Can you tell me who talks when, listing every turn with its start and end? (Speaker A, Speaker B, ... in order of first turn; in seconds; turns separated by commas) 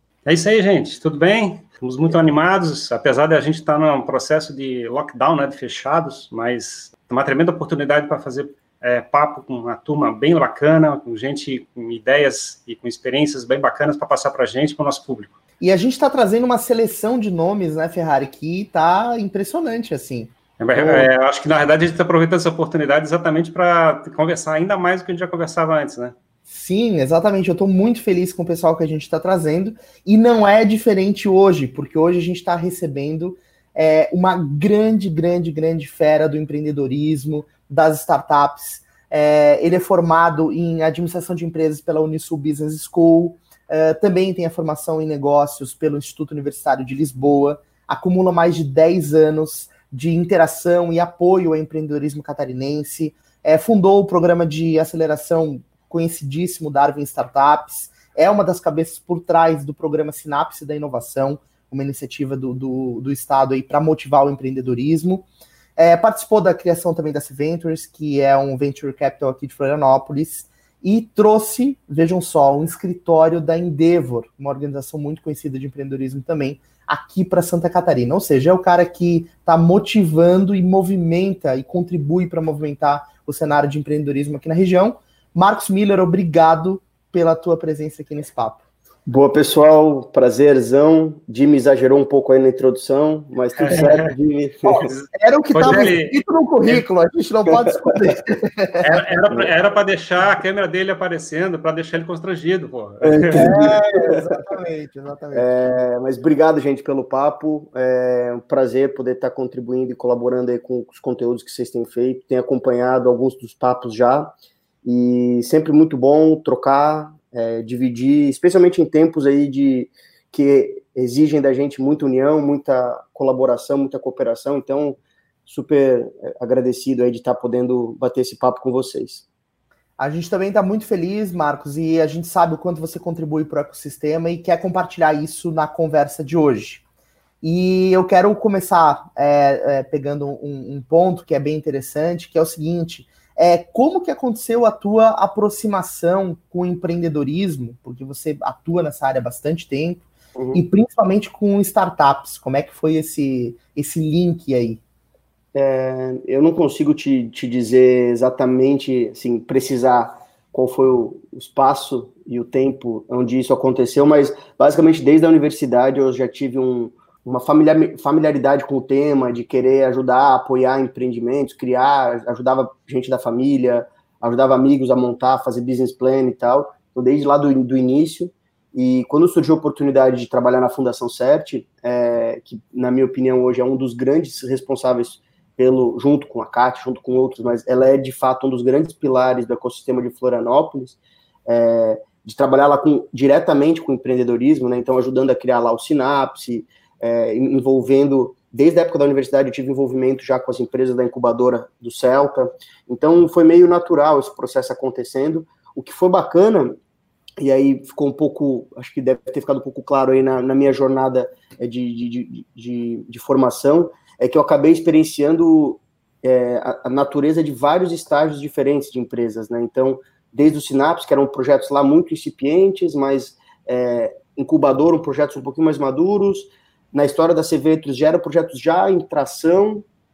Speaker A: 0.2-15.3, Speaker B: 15.6-21.1, Speaker A: 20.6-26.1, Speaker B: 26.5-88.6, Speaker C: 89.1-94.9, Speaker A: 93.6-94.1, Speaker B: 94.7-98.8, Speaker A: 94.9-96.8, Speaker C: 97.5-98.0, Speaker A: 98.8-103.6, Speaker C: 103.0-104.2, Speaker B: 103.3-105.5, Speaker C: 105.3-114.3, Speaker C: 114.8-129.3, Speaker B: 130.0-136.8, Speaker B: 137.4-154.8, Speaker C: 150.4-150.6, Speaker C: 155.5-206.8, Speaker C: 207.4-229.8